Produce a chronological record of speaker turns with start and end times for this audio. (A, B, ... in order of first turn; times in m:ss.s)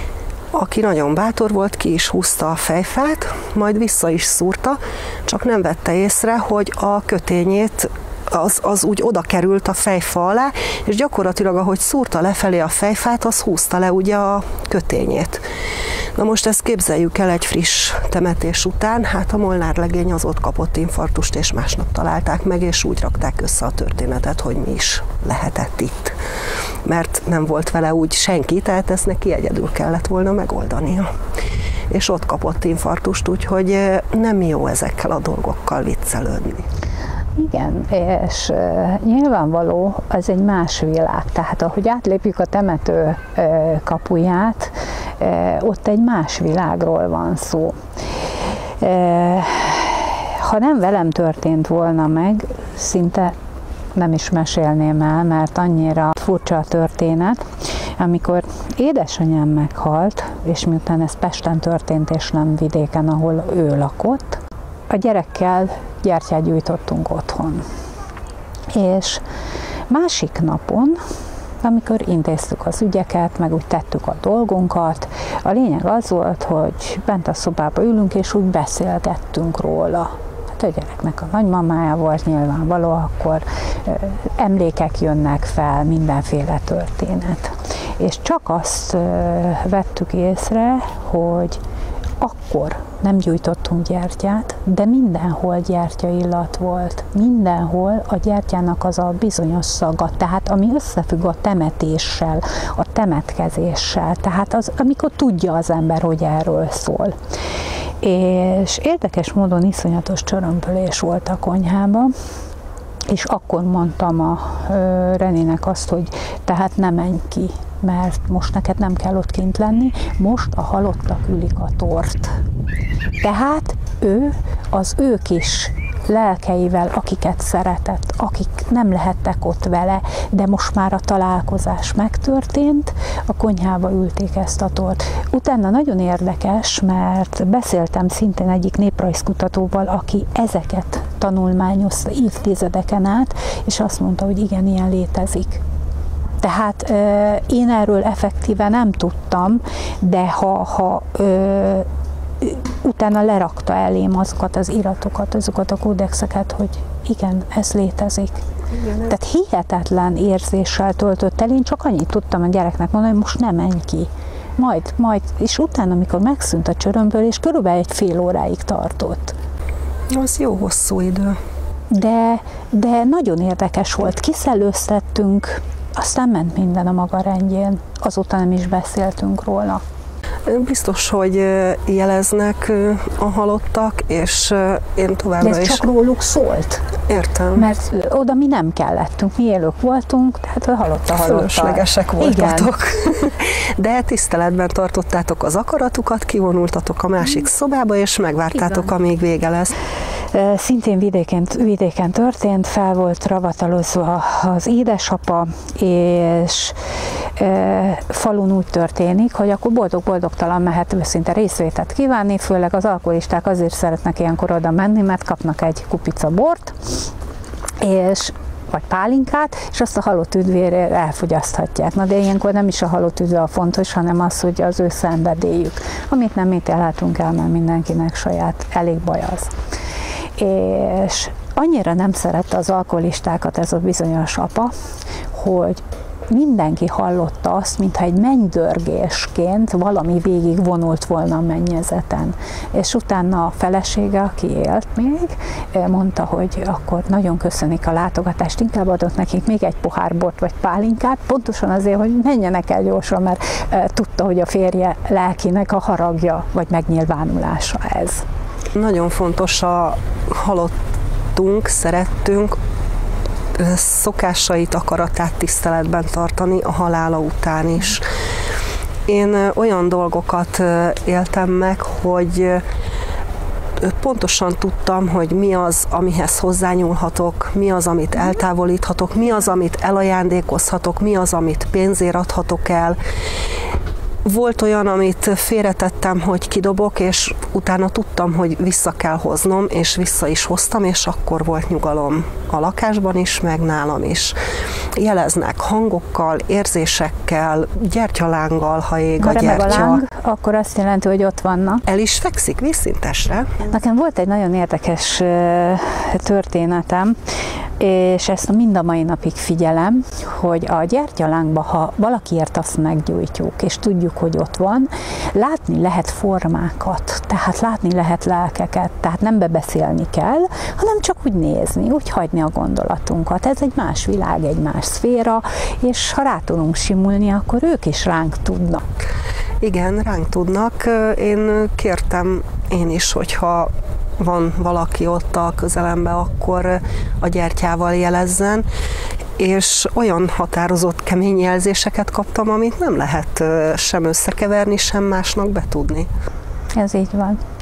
0:00.5-0:15.4 A
0:16.2-0:26.2 A
0:26.8-0:31.1 A
0:31.9-0:36.6 A
0:37.4-0:47.8 B
0:48.8-0:53.4 B
0:54.0-0:57.4 B
0:58.0-1:07.6 B
1:08.7-1:09.2 B
1:09.9-1:11.0 B
1:11.6-1:31.6 B
1:32.2-1:47.1 B
1:48.0-1:52.1 B
1:53.1-2:02.4 B
2:03.2-2:25.6 B
2:26.4-2:31.9 B
2:32.4-2:49.4 B
2:50.1-2:51.4 A
2:51.9-2:59.8 B
3:00.5-3:05.8 A
3:05.4-3:07.0 B
3:07.1-3:07.6 A
3:07.5-3:12.8 B
3:11.1-3:19.7 A
3:20.3-3:26.8 B
3:27.4-3:37.0 B
3:37.8-3:49.5 B
3:50.4-3:54.7 B
3:55.3-4:18.2 B
4:18.8-4:20.7 A
4:21.3-4:22.6 A
4:23.6-4:28.0 A
4:29.1-4:32.6 A
4:33.8-4:43.0 A
4:44.2-4:54.4 A
4:55.0-5:00.0 A
4:59.2-5:01.8 B
5:01.9-5:03.6 A
5:03.6-5:07.2 B
5:07.8-5:28.8 B
5:29.6-5:38.7 A
5:39.4-5:46.1 A
5:46.8-5:47.4 B